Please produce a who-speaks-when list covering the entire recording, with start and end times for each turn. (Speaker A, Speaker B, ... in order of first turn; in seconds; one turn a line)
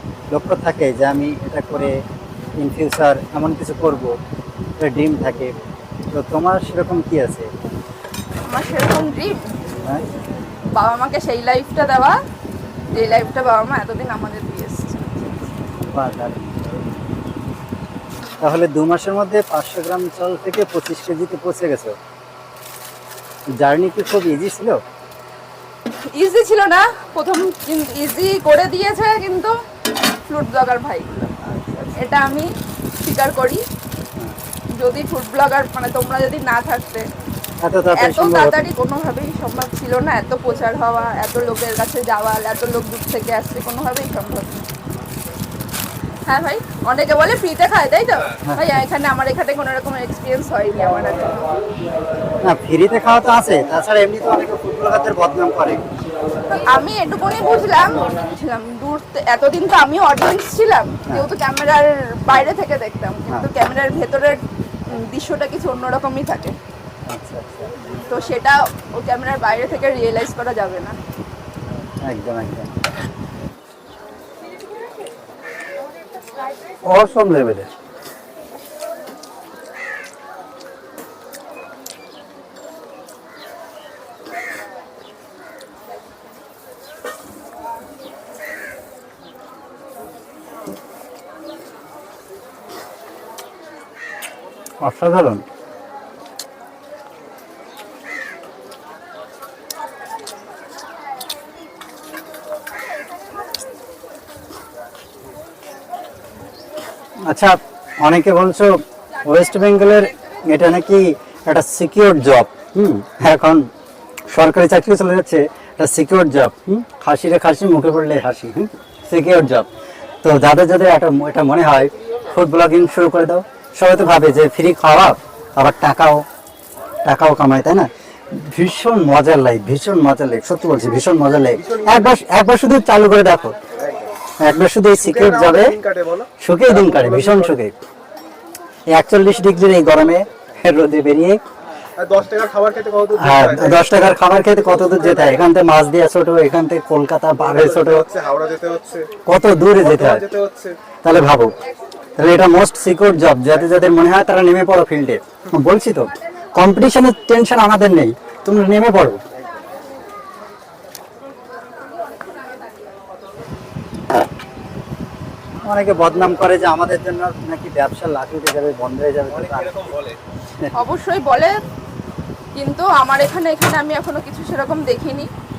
Speaker A: 0.3-1.9
Speaker A: 2.6-4.2
Speaker A: 4.8-5.5
Speaker A: 6.1-7.5
Speaker B: 8.5-9.4
Speaker B: 10.7-12.2
Speaker B: 12.9-15.4
Speaker A: 15.9-16.7
Speaker A: 18.4-21.9
Speaker A: 23.6-24.8
Speaker B: 26.1-29.5
Speaker B: 30.1-31.3
Speaker A: 31.4-32.0
Speaker B: 31.9-33.6
Speaker B: 34.8-37.1
Speaker A: 37.6-38.7
Speaker B: 38.0-44.7
Speaker B: 46.3-51.5
Speaker A: 52.4-55.8
Speaker B: 56.6-66.6
Speaker A: 67.1-67.9
Speaker B: 67.9-71.0
Speaker A: 72.0-72.7
Speaker A: 76.8-77.7
Speaker A: 94.8-95.5
Speaker A: 107.3-113.7
Speaker A: 114.3-119.7
Speaker A: 120.2-126.2
Speaker A: 127.0-133.6
Speaker C: 131.6-132.0
Speaker A: 134.4-135.8
Speaker C: 135.0-137.5
Speaker A: 136.4-137.8
Speaker A: 138.9-141.4
Speaker C: 142.0-143.9
Speaker A: 143.1-148.1
Speaker C: 144.8-145.4
Speaker C: 147.5-149.1
Speaker A: 149.3-150.3
Speaker C: 149.8-150.8
Speaker A: 151.0-151.5
Speaker A: 152.2-159.2
Speaker A: 165.6-170.0
Speaker C: 169.5-170.1
Speaker B: 170.7-171.6
Speaker B: 172.6-175.3